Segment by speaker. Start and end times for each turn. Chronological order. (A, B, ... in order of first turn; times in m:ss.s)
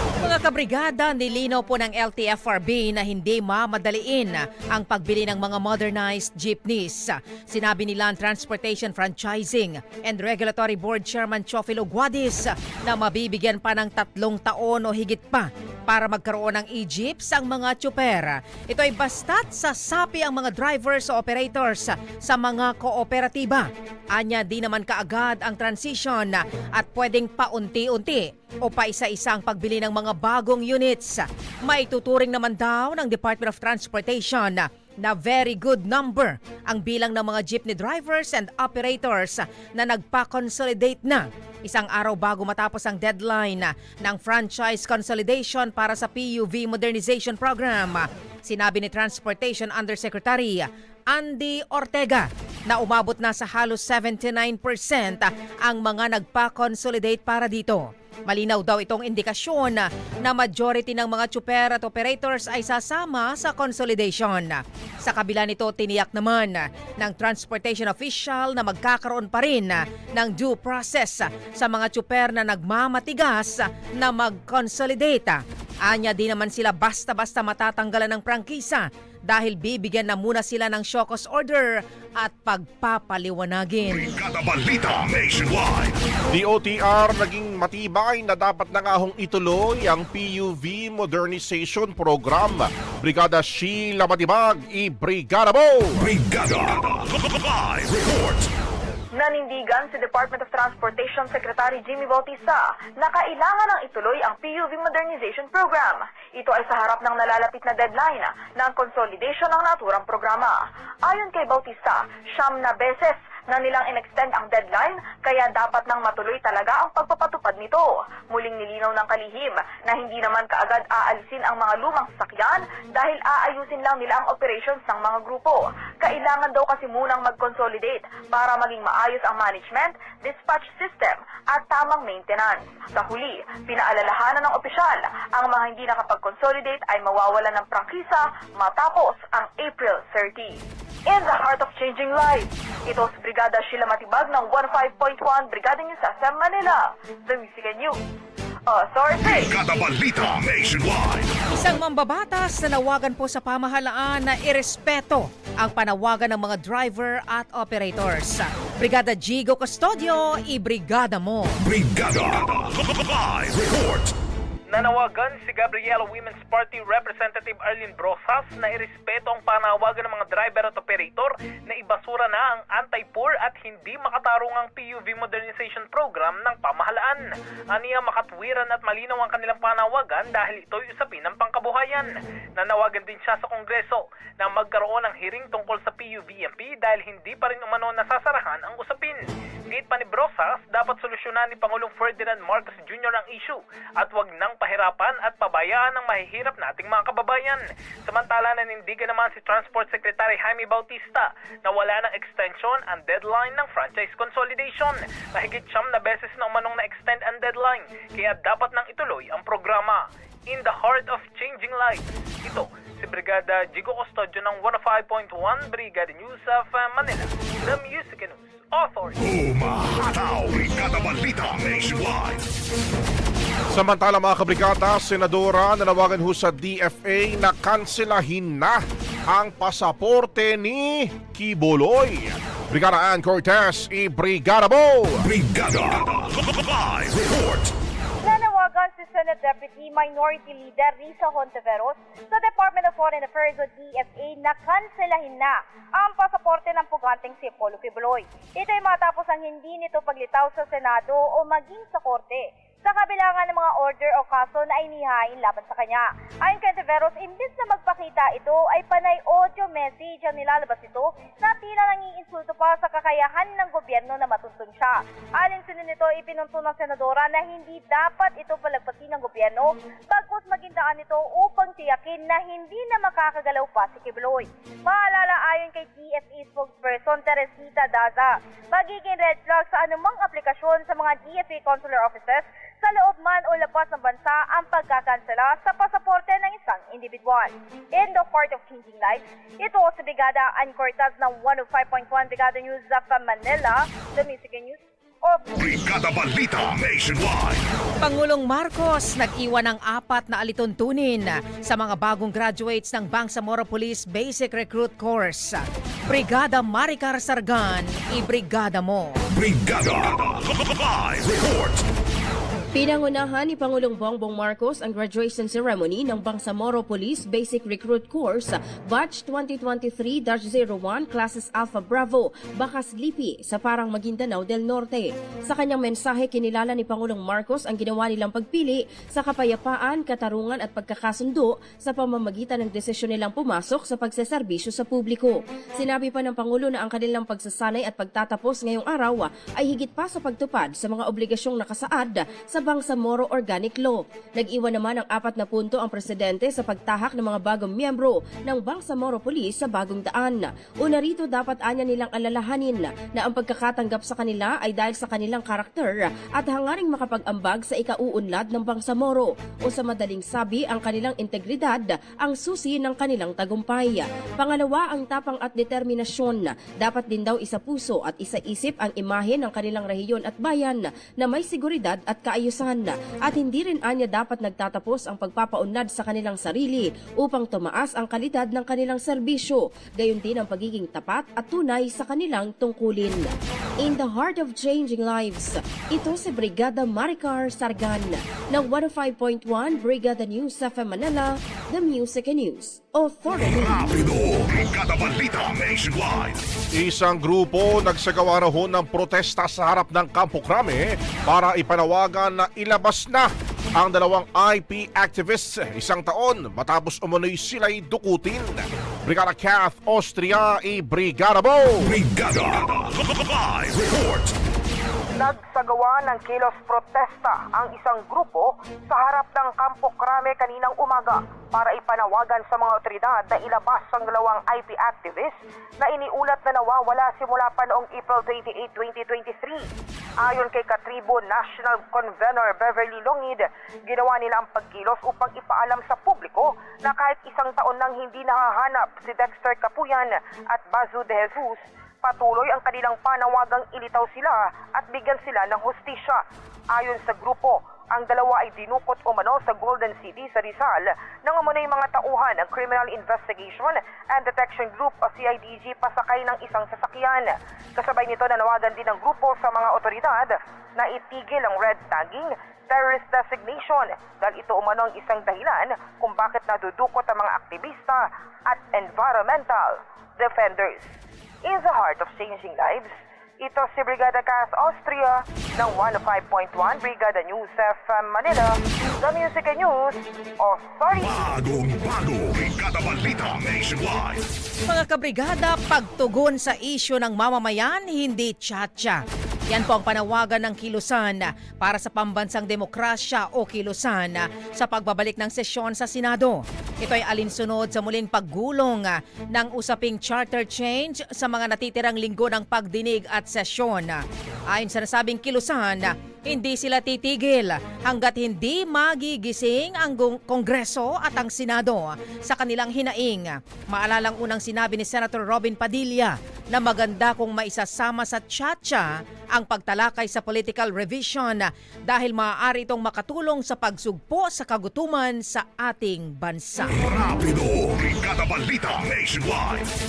0:00.2-1:24.1 A
1:23.9-1:26.0 B
1:26.3-1:36.1 C
1:36.0-1:38.5 B
1:39.1-2:28.0 D
2:28.7-2:29.6 D
2:29.2-2:31.3 B
2:31.5-2:41.6 A
2:41.6-2:44.1 B
2:44.7-3:39.2 E
3:39.2-3:42.4 B
3:43.7-3:55.3 C
3:55.2-3:57.7 B
3:58.2-4:55.5 F
4:55.5-4:57.6 B
4:58.0-5:09.2 A
5:09.3-5:11.8 B
5:12.7-6:34.0 G
6:33.4-6:36.4 B
6:36.7-6:52.0 C
6:51.8-6:54.3 B
6:55.2-7:09.6 H
7:10.2-7:26.2 H
7:26.7-7:50.8 H
7:51.4-7:52.9 H
7:53.4-8:01.0 H
8:01.0-8:04.2 B
8:04.6-8:46.8 A
8:46.8-8:49.7 B